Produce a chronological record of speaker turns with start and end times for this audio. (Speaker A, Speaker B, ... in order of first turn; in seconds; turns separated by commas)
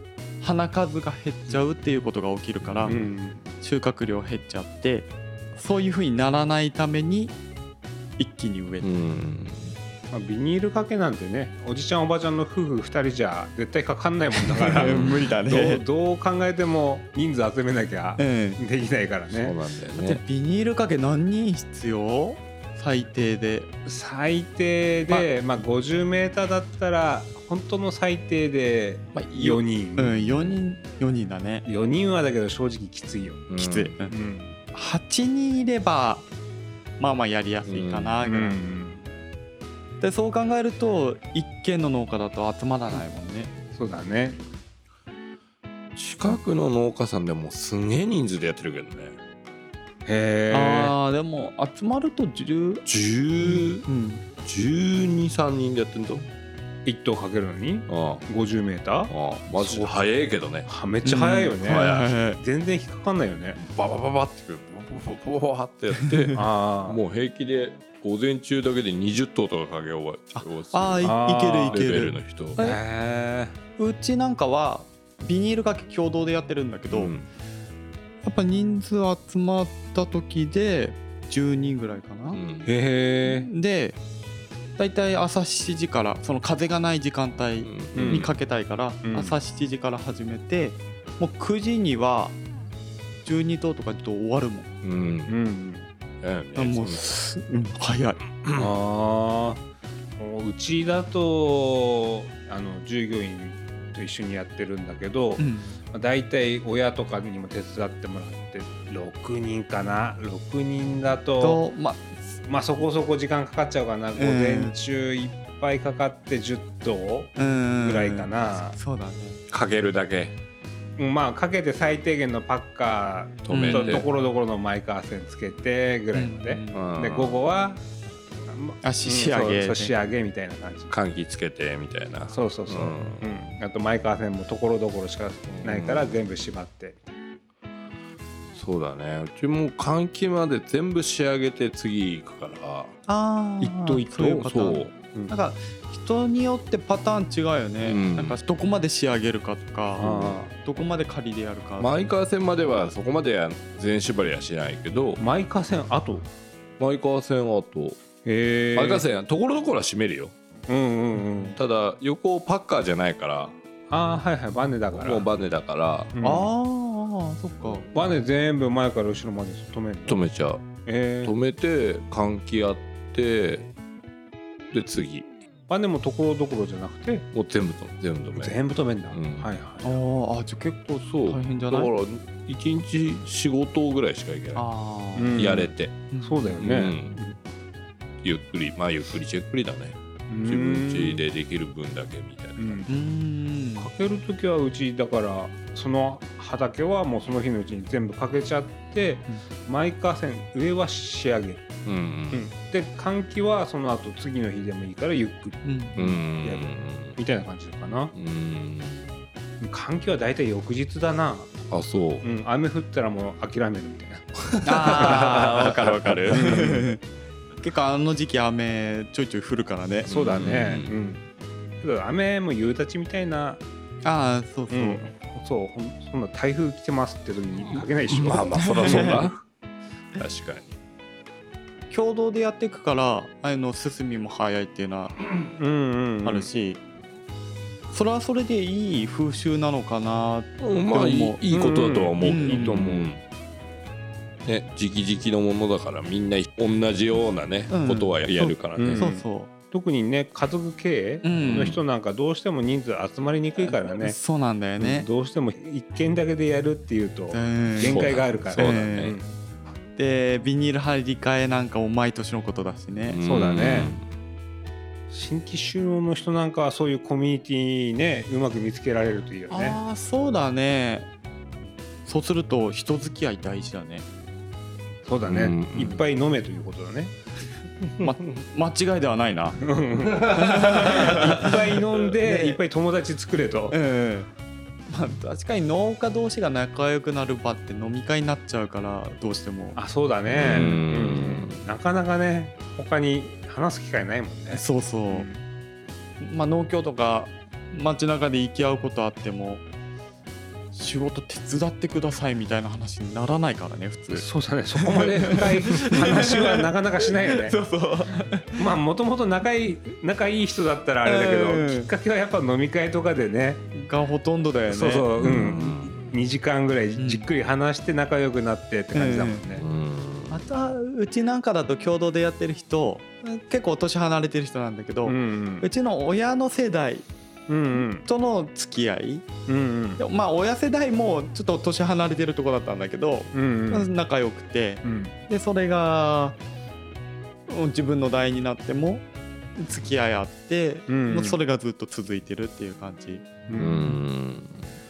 Speaker A: 0.4-3.0, Speaker B: 2.6-3.0, Speaker C: 2.9-3.5, Speaker A: 3.6-7.4, Speaker A: 8.2-8.9, Speaker B: 8.8-9.7, Speaker C: 10.1-19.6, Speaker A: 14.4-15.8, Speaker B: 14.9-15.1, Speaker A: 18.2-18.6, Speaker B: 19.3-20.2, Speaker A: 19.9-23.7, Speaker C: 23.9-30.5, Speaker A: 29.1-31.7, Speaker C: 31.6-33.5, Speaker B: 33.5-34.0, Speaker A: 33.6-34.1, Speaker C: 34.1-34.6, Speaker A: 34.7-36.3, Speaker A: 37.0-38.6, Speaker B: 37.7-38.2, Speaker C: 38.2-39.1, Speaker A: 40.0-43.5, Speaker C: 43.8-44.4, Speaker B: 46.0-49.2, Speaker C: 50.1-51.0, Speaker A: 50.5-52.9, Speaker B: 52.9-53.9, Speaker A: 53.4-54.2, Speaker B: 54.4-56.3, Speaker C: 56.9-60.0, Speaker B: 57.9-58.3, Speaker B: 59.1-60.7, Speaker C: 60.6-63.6, Speaker A: 61.0-62.4, Speaker B: 61.6-62.1, Speaker B: 63.6-72.6, Speaker A: 66.1-66.4, Speaker C: 66.3-67.0, Speaker A: 70.3-72.8, Speaker C: 71.0-71.9, Speaker C: 72.6-73.6, Speaker A: 73.8-77.1, Speaker B: 76.9-77.3, Speaker A: 78.2-82.4, Speaker B: 82.3-82.7, Speaker C: 82.7-83.5, Speaker A: 83.3-84.0, Speaker A: 84.8-92.4, Speaker B: 87.6-88.3, Speaker C: 87.9-88.3, Speaker C: 89.0-89.4, Speaker A: 93.2-94.7, Speaker B: 94.8-95.3, Speaker C: 95.3-95.9, Speaker B: 96.2-97.1, Speaker A: 96.6-98.2, Speaker C: 98.5-99.6, Speaker C: 100.2-111.6, Speaker A: 105.4-105.8, Speaker A: 111.4-112.4, Speaker C: 112.5-118.8, Speaker A: 114.2-114.7, Speaker A: 117.4-119.4, Speaker B: 119.5-120.4, Speaker C: 121.0-130.9, Speaker B: 123.5-124.1, Speaker A: 123.5-124.1, Speaker A: 126.1-126.9, Speaker B: 126.7-127.5, Speaker A: 128.8-129.9, Speaker B: 130.9-133.2, Speaker C: 132.3-137.0, Speaker B: 135.6-136.2, Speaker B: 138.5-142.9, Speaker A: 143.1-152.1, Speaker C: 143.6-144.6, Speaker B: 144.5-144.9, Speaker B: 147.8-148.4, Speaker C: 150.0-150.5, Speaker B: 151.8-155.2, Speaker C: 155.2-156.3, Speaker B: 156.8-158.0, Speaker C: 158.2-159.0, Speaker B: 158.8-160.3, Speaker C: 160.7-161.6, Speaker B: 161.6-163.6, Speaker C: 163.9-165.3, Speaker B: 164.9-166.1, Speaker C: 166.1-166.5, Speaker A: 166.2-167.9, Speaker C: 167.9-170.2, Speaker B: 170.1-170.6, Speaker C: 170.9-171.3, Speaker B: 171.2-173.7, Speaker B: 174.7-175.3, Speaker C: 175.7-177.3, Speaker B: 177.3-179.5, Speaker C: 178.4-180.0, Speaker A: 179.8-181.9, Speaker B: 181.0-184.7, Speaker A: 184.6-185.5, Speaker C: 185.2-187.4, Speaker B: 185.4-186.0, Speaker A: 186.1-186.6, Speaker B: 186.6-187.2, Speaker B: 188.2-192.8, Speaker C: 190.3-191.2, Speaker C: 192.6-192.9, Speaker A: 192.9-193.9, Speaker C: 193.8-201.7, Speaker B: 201.9-202.5, Speaker C: 202.3-208.1, Speaker A: 205.6-205.9, Speaker B: 206.0-207.2, Speaker B: 208.1-209.1, Speaker C: 209.6-211.6, Speaker B: 211.7-212.3, Speaker C: 212.2-215.5, Speaker B: 214.5-216.4, Speaker A: 214.6-217.0, Speaker C: 216.3-216.9, Speaker A: 217.6-220.1, Speaker B: 220.1-221.0, Speaker C: 220.1-221.2, Speaker C: 221.8-223.6, Speaker A: 224.0-225.0, Speaker C: 224.7-229.3, Speaker B: 228.1-229.4, Speaker A: 228.5-229.3, Speaker B: 230.2-230.8, Speaker A: 231.9-235.2, Speaker C: 235.6-236.5, Speaker A: 236.2-236.8, Speaker A: 237.9-241.4, Speaker B: 240.6-243.2, Speaker C: 241.5-243.1, Speaker A: 242.2-242.8, Speaker B: 244.4-249.0, Speaker A: 247.7-248.2, Speaker C: 248.4-254.2, Speaker A: 248.9-249.5, Speaker A: 251.2-251.8, Speaker A: 253.6-255.1, Speaker C: 254.8-259.3, Speaker A: 257.3-259.1, Speaker B: 257.8-259.1, Speaker A: 260.0-263.2, Speaker B: 263.1-264.1, Speaker C: 263.2-263.9, Speaker C: 265.1-269.8, Speaker A: 269.5-271.1, Speaker A: 272.1-274.1, Speaker C: 275.1-277.1, Speaker B: 275.3-276.0, Speaker A: 278.0-279.6, Speaker C: 279.6-283.8, Speaker A: 280.3-281.5, Speaker A: 282.2-282.6, Speaker A: 283.7-284.3, Speaker A: 284.9-289.8, Speaker C: 289.8-295.4, Speaker B: 290.3-291.6, Speaker A: 290.5-290.9, Speaker A: 294.5-295.3, Speaker A: 296.2-299.6, Speaker A: 300.7-306.7, Speaker C: 304.1-307.6, Speaker A: 307.2-308.5, Speaker C: 308.6-313.6, Speaker A: 311.0-311.9, Speaker A: 313.7-315.1, Speaker C: 314.7-319.6, Speaker B: 315.2-316.1, Speaker A: 317.0-317.3, Speaker A: 318.9-319.4, Speaker B: 319.6-320.4, Speaker A: 320.3-327.1, Speaker C: 325.0-325.7, Speaker C: 327.5-328.1, Speaker A: 327.7-329.2, Speaker C: 329.5-330.0, Speaker A: 330.0-336.4, Speaker C: 333.3-333.9, Speaker C: 334.8-335.1, Speaker A: 337.5-343.2, Speaker C: 340.9-341.4, Speaker C: 343.5-344.0, Speaker B: 343.6-344.6